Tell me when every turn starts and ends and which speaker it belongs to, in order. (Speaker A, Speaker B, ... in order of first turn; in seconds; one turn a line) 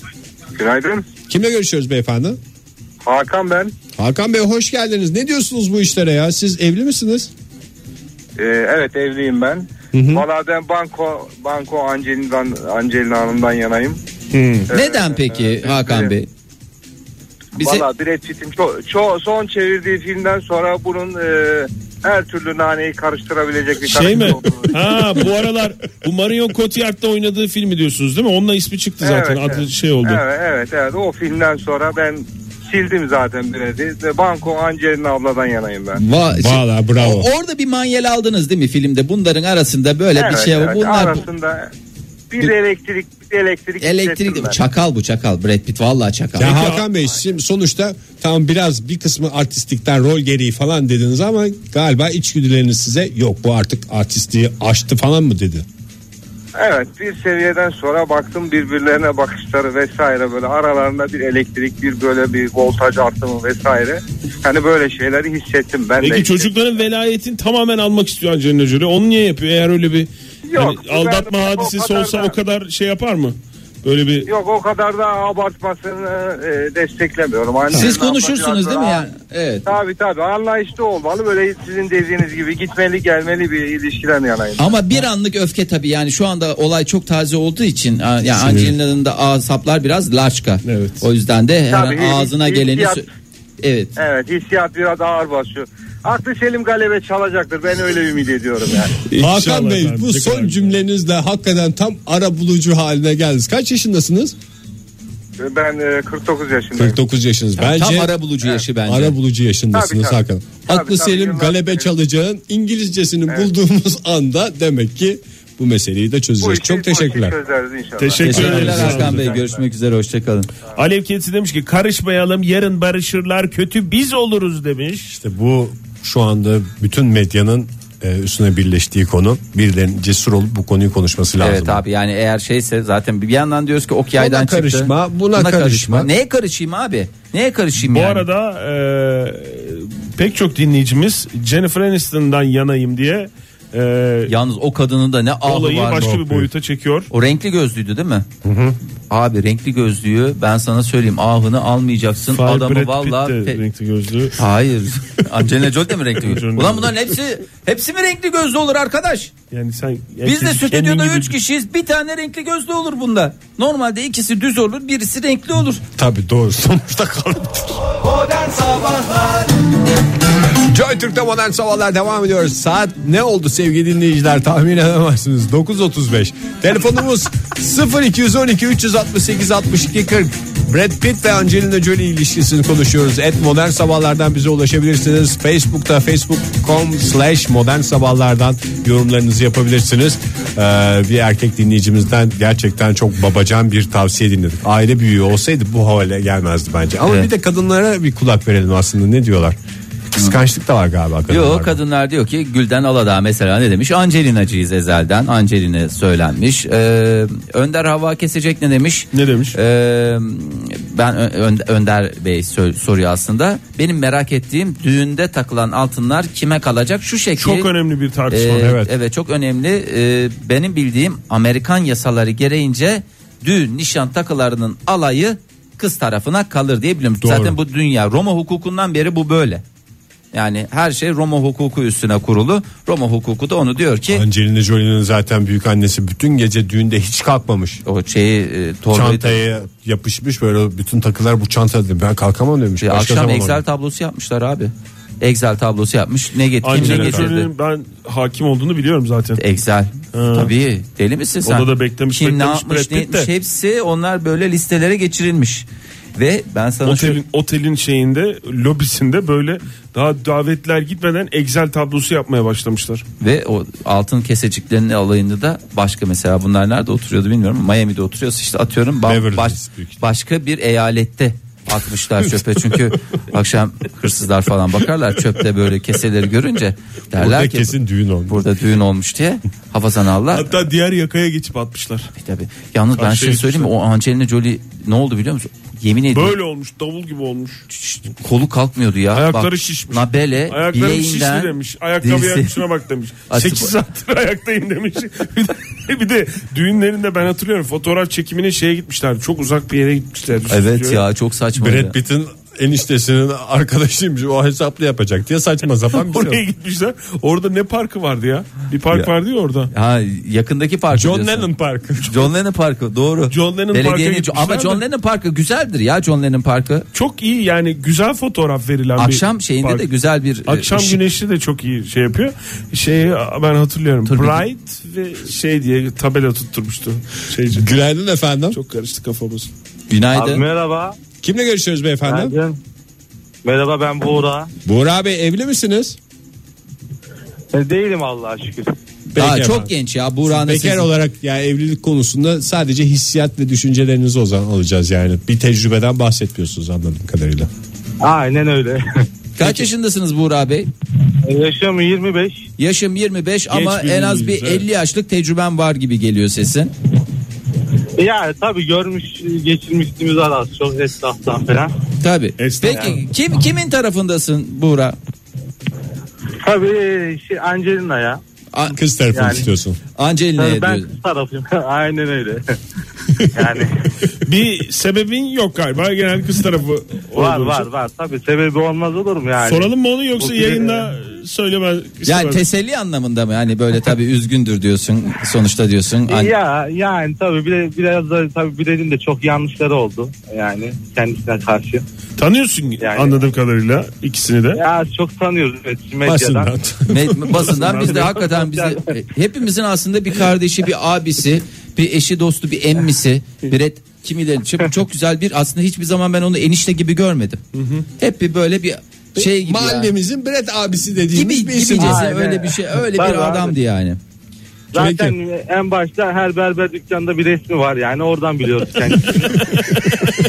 Speaker A: 0.6-1.1
Speaker B: 1.3-2.4
Speaker A: 3.0-3.7
Speaker B: 4.0-7.3
Speaker A: 8.4-14.0
Speaker B: 9.9-10.2
Speaker C: 14.3-14.7
Speaker A: 14.7-16.1
Speaker D: 14.7-16.3
Speaker D: 17.6-17.9
Speaker A: 17.6-25.0
Speaker C: 23.9-30.2
Speaker A: 29.0-36.0
Speaker D: 36.0-41.2
Speaker B: 36.3-37.3
Speaker A: 40.1-41.7
Speaker A: 42.3-44.6
Speaker D: 43.8-46.6
Speaker B: 46.4-55.7
Speaker C: 46.4-46.9
Speaker A: 56.6-66.5
Speaker C: 66.0-74.3
Speaker A: 70.5-72.3
Speaker A: 74.3-79.1
Speaker D: 77.7-79.7
Speaker A: 79.7-84.7
Speaker D: 84.6-93.1
Speaker B: 88.3-88.8
Speaker C: 90.6-91.0
Speaker A: 91.7-93.1
Speaker D: 93.6-94.0
Speaker A: 94.0-99.0
Speaker C: 99.1-100.8
Speaker B: 99.2-104.3
Speaker A: 105.4-107.0
Speaker B: 106.8-108.1
Speaker D: 107.6-109.2
Speaker B: 108.8-117.4
Speaker A: 109.7-111.9
Speaker A: 116.4-119.6
Speaker C: 118.0-119.4
Speaker D: 118.2-120.5
Speaker B: 118.3-119.1
Speaker C: 120.8-125.1
Speaker B: 125.1-131.8
Speaker D: 131.4-138.3
Speaker B: 134.2-136.1
Speaker C: 137.8-144.3
Speaker D: 144.3-146.1
Speaker C: 145.4-147.1
Speaker B: 146.0-146.5
Speaker D: 147.1-148.3
Speaker B: 148.4-148.8
Speaker D: 149.1-153.6
Speaker C: 152.3-154.4
Speaker D: 154.4-159.3
Speaker C: 156.2-157.0
Speaker C: 159.5-161.3
Speaker D: 160.2-165.8
Speaker B: 166.0-167.9
Speaker D: 168.4-169.2
Speaker B: 170.5-199.6
Speaker B: 200.2-201.8
Speaker D: 201.3-217.7
Speaker C: 209.1-209.6
Speaker C: 217.4-218.8
Speaker D: 218.3-229.6
Speaker B: 218.6-218.9
Speaker B: 227.2-227.6
Speaker D: 230.3-234.2
Speaker B: 234.1-237.8
Speaker D: 237.8-239.4
Speaker B: 238.9-243.6
Speaker D: 242.8-247.5
Speaker C: 246.6-249.4
Speaker B: 246.8-247.3
Speaker D: 249.4-257.2
Speaker C: 250.1-250.5
Speaker C: 251.4-253.3
Speaker C: 256.9-263.1
Speaker D: 263.2-277.8
Speaker B: 269.0-270.0
Speaker B: 277.1-278.4
Speaker D: 278.3-280.5
Speaker C: 280.3-282.1
Speaker D: 282.1-286.4
Speaker C: 283.0-283.7
Speaker C: 286.1-287.6
Speaker D: 287.7-292.6
Speaker C: 289.1-301.0
Speaker D: 293.3-293.7
Speaker D: 300.5-301.9
Speaker B: 301.6-306.4
Speaker C: 305.9-309.7
Speaker D: 309.7-311.5
Speaker B: 310.9-312.3
Speaker D: 312.0-316.9
Speaker C: 313.3-314.8
Speaker C: 316.9-319.9
Speaker D: 319.0-321.0
Speaker C: 320.5-327.7
Speaker D: 324.1-324.4
Speaker B: 327.5-328.6
Speaker C: 328.5-329.5
Speaker D: 329.9-330.4
Speaker E: 330.1-331.0
Speaker B: 331.2-332.4
Speaker E: 332.1-332.6
Speaker E: 333.4-334.5
Speaker B: 334.7-336.0
Speaker E: 337.5-338.7
Speaker B: 339.1-339.7
Speaker D: 339.2-340.9
Speaker B: 340.2-347.5
Speaker E: 348.0-348.8
Speaker D: 349.4-350.7
Speaker E: 351.2-352.5
Speaker D: 352.6-356.7
Speaker C: 353.5-354.6
Speaker E: 358.0-361.7
Speaker D: 362.0-365.0
Speaker C: 362.4-363.0
Speaker E: 362.7-363.0
Speaker E: 366.4-368.2
Speaker B: 368.7-369.8
Speaker E: 369.1-369.5
Speaker D: 370.0-370.9
Speaker E: 370.4-372.6
Speaker E: 373.3-373.9
Speaker C: 374.2-377.7
Speaker E: 377.1-380.9
Speaker C: 379.4-382.4
Speaker D: 382.1-386.3
Speaker E: 386.1-391.9
Speaker C: 392.2-394.6
Speaker E: 392.8-393.2
Speaker E: 394.5-396.5
Speaker B: 396.0-397.5
Speaker D: 396.9-407.4
Speaker C: 397.4-398.3
Speaker E: 397.8-398.8
Speaker C: 407.5-407.9
Speaker D: 408.0-409.9
Speaker B: 409.2-412.1
Speaker D: 411.1-414.0
Speaker E: 411.8-413.6
Speaker E: 414.7-419.9
Speaker B: 414.8-415.1